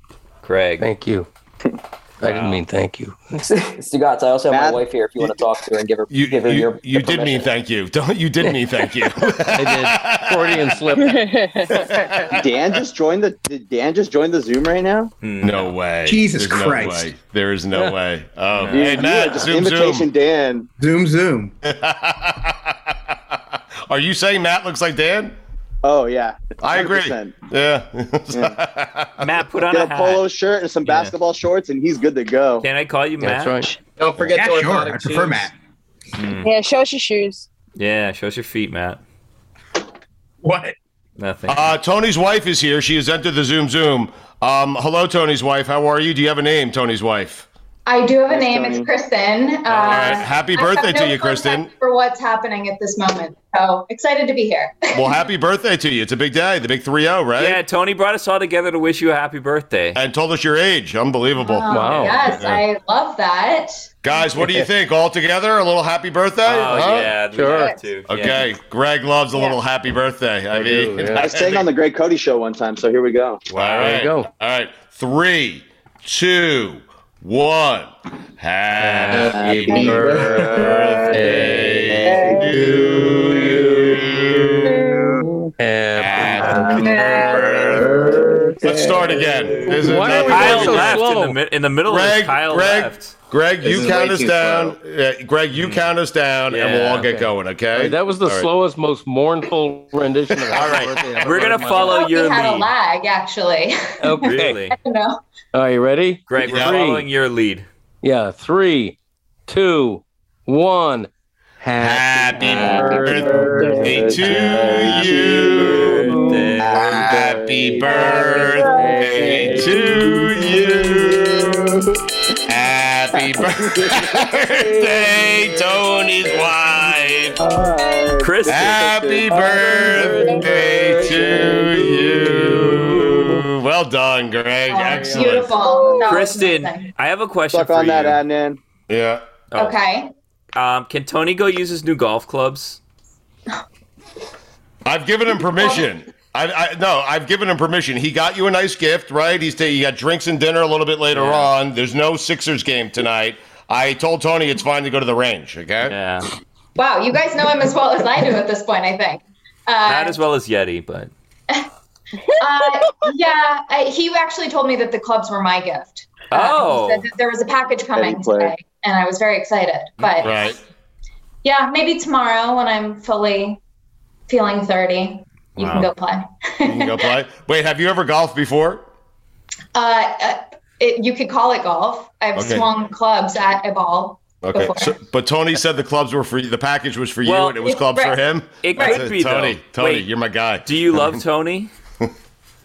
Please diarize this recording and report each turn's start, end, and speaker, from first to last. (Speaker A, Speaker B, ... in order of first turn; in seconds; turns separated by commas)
Speaker A: 0.4-0.9, Speaker B: 0.8-1.3, Speaker B: 2.2-3.3, Speaker A: 2.2-2.6, Speaker C: 3.4-7.5, Speaker D: 4.5-4.8, Speaker E: 6.1-10.8, Speaker B: 9.6-11.2, Speaker F: 11.0-12.0, Speaker E: 11.7-12.4, Speaker D: 12.3-15.1, Speaker A: 15.2-15.8, Speaker E: 15.4-20.1, Speaker G: 16.1-17.1, Speaker A: 18.6-18.8, Speaker D: 18.7-20.7, Speaker G: 20.8-21.5, Speaker E: 21.6-23.1, Speaker E: 23.9-25.4, Speaker D: 25.8-27.3, Speaker E: 26.6-29.2, Speaker A: 29.2-30.3, Speaker D: 29.7-32.7, Speaker A: 30.9-31.1, Speaker A: 32.6-33.7, Speaker B: 33.2-33.8, Speaker H: 34.0-35.5, Speaker G: 34.2-35.5, Speaker A: 36.2-36.5, Speaker F: 36.4-37.5, Speaker A: 37.8-39.0, Speaker G: 40.4-40.8, Speaker A: 41.2-41.7, Speaker E: 41.5-47.5, Speaker I: 47.9-55.1, Speaker D: 48.3-48.9, Speaker E: 49.7-51.7, Speaker E: 54.9-57.6, Speaker A: 57.4-60.0, Speaker E: 60.0-62.6, Speaker I: 61.4-63.9, Speaker B: 61.7-62.3, Speaker E: 64.0-67.1, Speaker B: 64.4-64.7, Speaker A: 66.5-68.4, Speaker B: 67.3-67.7, Speaker E: 68.1-71.7, Speaker B: 70.5-71.3, Speaker D: 71.2-73.4, Speaker A: 73.5-74.0, Speaker E: 73.5-84.8, Speaker B: 73.8-74.3, Speaker A: 78.8-79.4, Speaker B: 79.0-80.4, Speaker D: 79.4-80.1, Speaker H: 79.8-80.5, Speaker B: 81.1-82.0, Speaker A: 81.3-81.6, Speaker D: 82.0-82.5, Speaker B: 85.6-86.8, Speaker E: 86.0-88.1, Speaker A: 86.2-86.8, Speaker D: 86.6-87.0, Speaker F: 87.1-87.5, Speaker H: 87.5-88.6, Speaker D: 87.8-88.2, Speaker E: 88.6-91.0, Speaker B: 89.6-91.4, Speaker A: 90.1-93.1, Speaker E: 91.9-98.5, Speaker H: 93.7-94.7, Speaker A: 95.5-95.8, Speaker A: 96.5-97.3, Speaker B: 97.8-101.9, Speaker E: 100.5-101.4, Speaker A: 100.5-102.7, Speaker I: 101.9-105.2, Speaker B: 104.0-104.6, Speaker A: 104.2-104.8, Speaker B: 105.5-107.0, Speaker A: 106.3-107.7, Speaker E: 106.5-106.8, Speaker B: 108.0-114.1, Speaker E: 111.8-121.6, Speaker D: 112.6-113.1, Speaker D: 113.7-116.0, Speaker A: 114.3-117.0, Speaker D: 116.6-118.2, Speaker F: 117.9-119.0, Speaker B: 118.8-119.9, Speaker E: 122.5-127.4, Speaker D: 127.4-130.8, Speaker A: 128.2-129.0, Speaker E: 128.5-135.6, Speaker I: 134.7-136.9, Speaker B: 134.9-135.3, Speaker A: 136.1-138.2, Speaker D: 137.5-138.6, Speaker E: 138.9-139.2, Speaker I: 139.6-140.1, Speaker A: 140.6-142.8, Speaker E: 144.8-155.9, Speaker I: 145.4-145.9, Speaker A: 151.1-151.5, Speaker A: 155.9-156.3, Speaker I: 156.8-160.2, Speaker A: 159.8-161.1, Speaker I: 162.4-170.5, Speaker A: 166.3-167.1, Speaker D: 167.9-168.6, Speaker A: 170.0-170.4, Speaker E: 170.2-170.6, Speaker I: 171.4-173.6, Speaker I: 174.3-177.1, Speaker A: 175.6-175.9, Speaker E: 176.6-178.8, Speaker I: 179.8-184.9, Speaker E: 182.3-182.7, Speaker E: 184.4-191.2, Speaker A: 187.2-187.6, Speaker I: 187.6-188.2, Speaker A: 188.6-190.1, Speaker I: 188.8-189.0, Speaker A: 190.7-191.7